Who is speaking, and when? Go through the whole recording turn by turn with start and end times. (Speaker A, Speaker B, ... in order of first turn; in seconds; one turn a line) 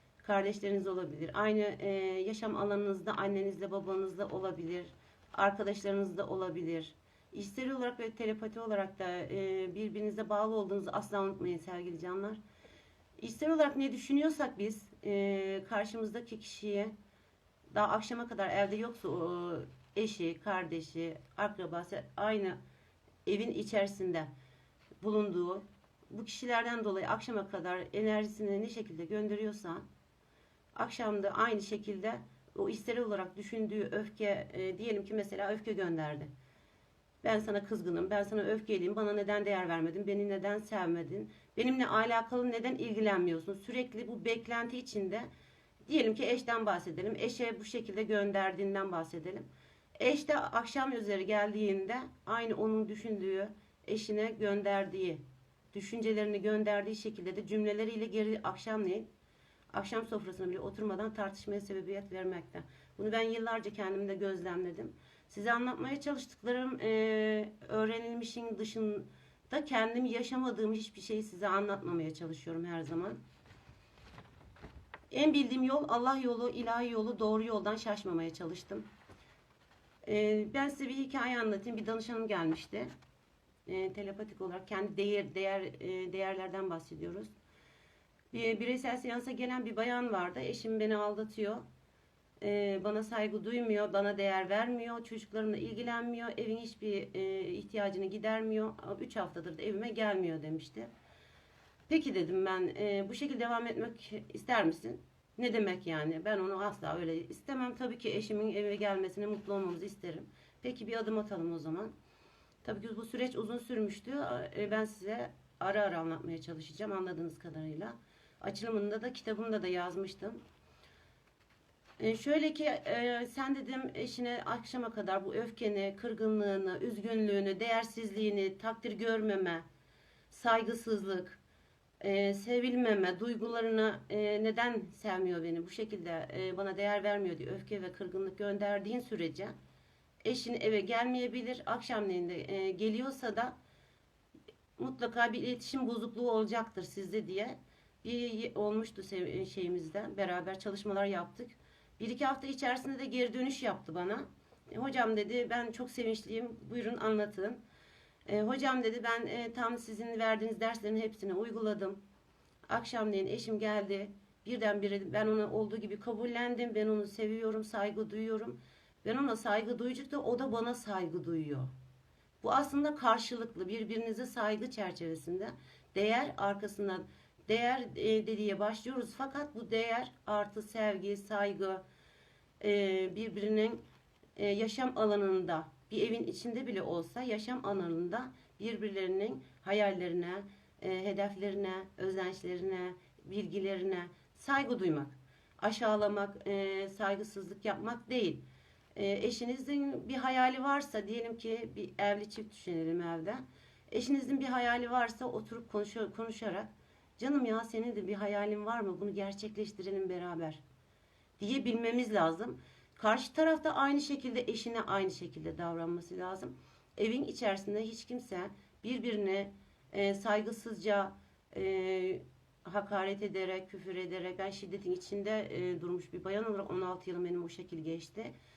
Speaker A: 0.2-12.4
Speaker A: 13.2-16.9
Speaker A: 17.7-22.6
Speaker A: 23.2-24.3
Speaker A: 25.0-29.8
Speaker A: 30.7-36.3
Speaker A: 37.2-45.3
Speaker A: 45.9-49.5
Speaker A: 50.0-55.2
Speaker A: 55.7-59.1
Speaker A: 59.7-73.2
Speaker A: 75.1-78.9
Speaker A: 80.0-82.9
Speaker A: 83.7-87.3
Speaker A: 88.3-91.6
Speaker A: 92.4-100.9
Speaker A: 101.9-111.9
Speaker A: 112.6-120.4
Speaker A: 122.0-129.6
Speaker A: 130.3-131.4
Speaker A: 132.0-139.5
Speaker A: 140.2-143.5
Speaker A: 144.8-157.6
Speaker A: 158.2-162.0
Speaker A: 162.7-171.7
Speaker A: 172.4-181.8
Speaker A: 182.6-183.8
Speaker A: 184.3-210.6
Speaker A: 211.4-228.3